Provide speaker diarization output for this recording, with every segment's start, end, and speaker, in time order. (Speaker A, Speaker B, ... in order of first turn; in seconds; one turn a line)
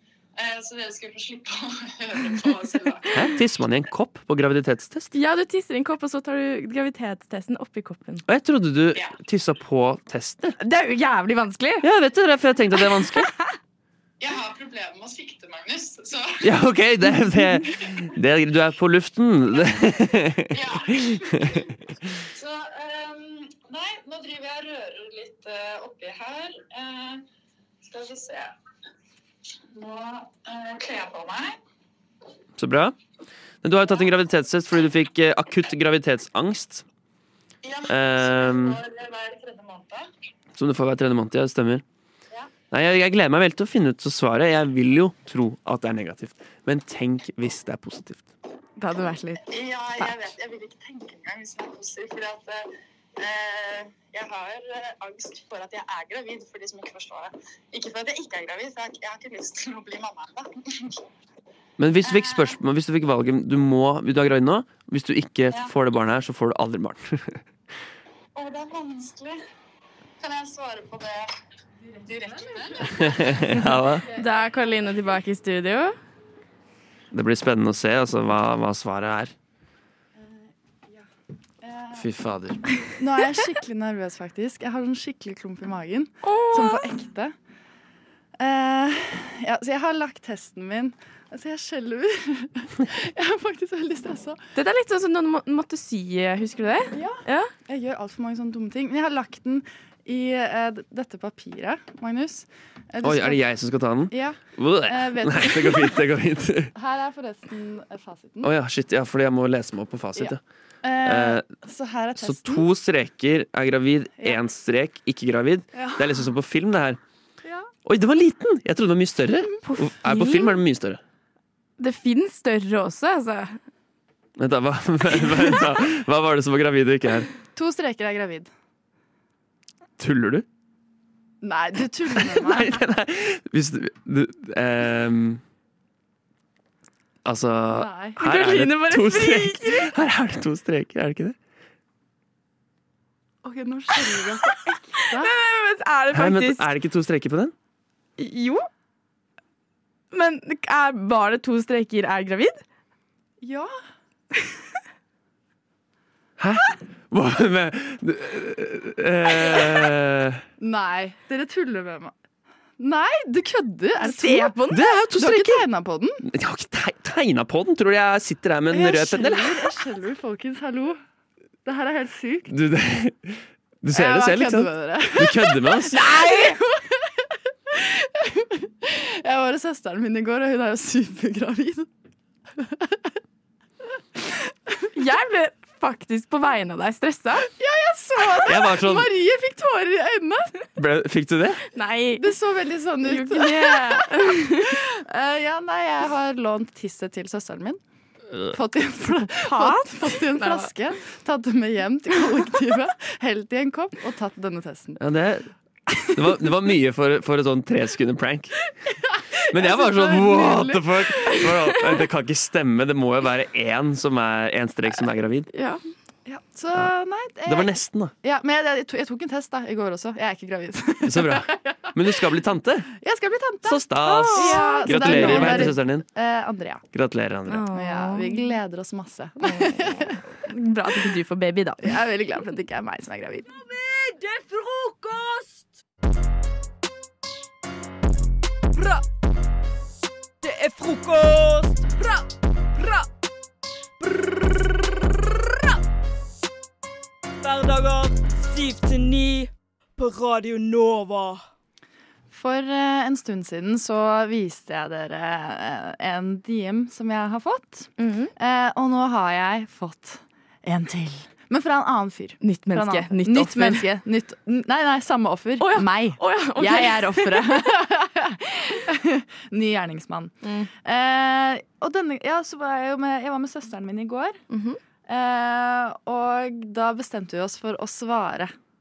Speaker A: 0.4-3.2
Speaker B: 3.1-5.1
Speaker C: 5.1-8.2
Speaker B: 8.3-10.6
Speaker C: 10.6-11.8
Speaker B: 11.8-13.3
Speaker C: 12.7-13.3
Speaker A: 14.2-16.5
Speaker B: 16.4-21.5
Speaker A: 20.5-21.5
Speaker A: 22.3-27.2
Speaker A: 27.9-28.5
Speaker A: 29.8-31.6
Speaker B: 32.6-33.0
Speaker B: 33.6-36.9
Speaker A: 37.6-40.1
Speaker B: 37.9-38.8
Speaker B: 40.5-41.8
Speaker B: 42.7-48.3
Speaker C: 48.8-49.4
Speaker A: 49.5-52.7
Speaker C: 50.0-50.3
Speaker A: 53.2-61.0
Speaker B: 61.8-67.4
Speaker A: 62.0-62.6
Speaker A: 68.4-69.4
Speaker A: 70.2-71.3
Speaker A: 72.0-73.0
Speaker B: 72.8-74.1
Speaker C: 74.1-75.9
Speaker B: 77.1-79.3
Speaker D: 81.6-82.0
Speaker B: 81.9-82.6
Speaker D: 83.0-87.3
Speaker C: 86.3-86.8
Speaker D: 88.4-94.4
Speaker C: 94.6-97.5
Speaker D: 96.9-103.4
Speaker B: 103.0-106.7
Speaker D: 104.1-106.0
Speaker D: 106.8-108.5
Speaker B: 108.4-110.4
Speaker D: 110.2-112.7
Speaker B: 111.0-111.6
Speaker B: 112.2-117.0
Speaker D: 115.8-116.0
Speaker B: 117.8-121.0
Speaker C: 119.7-120.5
Speaker C: 121.8-123.5
Speaker B: 124.4-127.3
Speaker D: 127.5-128.5
Speaker B: 130.0-130.4
Speaker D: 131.4-132.8
Speaker B: 132.2-135.4
Speaker B: 137.2-141.4
Speaker D: 137.7-138.2
Speaker C: 138.2-139.9
Speaker D: 143.4-145.4
Speaker C: 145.2-146.7
Speaker B: 146.1-147.5
Speaker C: 148.2-148.6
Speaker C: 150.1-152.6
Speaker D: 153.4-153.7
Speaker B: 156.4-160.4
Speaker D: 160.6-162.1
Speaker D: 162.8-164.6
Speaker C: 164.2-164.7
Speaker B: 164.7-165.7
Speaker D: 165.2-166.2
Speaker B: 166.3-169.7
Speaker D: 168.7-171.0
Speaker D: 171.7-172.5
Speaker B: 172.5-176.1
Speaker D: 173.9-177.1
Speaker D: 177.7-181.9
Speaker D: 182.6-182.9
Speaker C: 185.0-187.4
Speaker D: 187.6-190.5
Speaker B: 188.5-189.1
Speaker B: 190.8-191.6
Speaker C: 191.8-192.2
Speaker D: 192.2-197.8
Speaker C: 193.1-194.5
Speaker D: 198.5-205.0
Speaker C: 199.5-199.8
Speaker C: 200.3-200.6
Speaker B: 205.0-205.5
Speaker B: 206.1-208.5
Speaker B: 209.5-215.5
Speaker D: 209.5-211.4
Speaker D: 216.3-221.9
Speaker B: 217.5-218.1
Speaker B: 221.1-222.9
Speaker D: 223.0-226.8
Speaker B: 223.7-226.1
Speaker C: 224.3-225.7
Speaker B: 226.9-227.7
Speaker D: 227.7-230.2
Speaker C: 230.6-231.8
Speaker D: 231.8-233.5
Speaker E: 233.5-235.4
Speaker F: 240.4-241.9
Speaker F: 247.4-251.4
Speaker D: 252.3-274.4
Speaker C: 262.4-263.9
Speaker C: 265.6-266.9
Speaker D: 275.1-278.5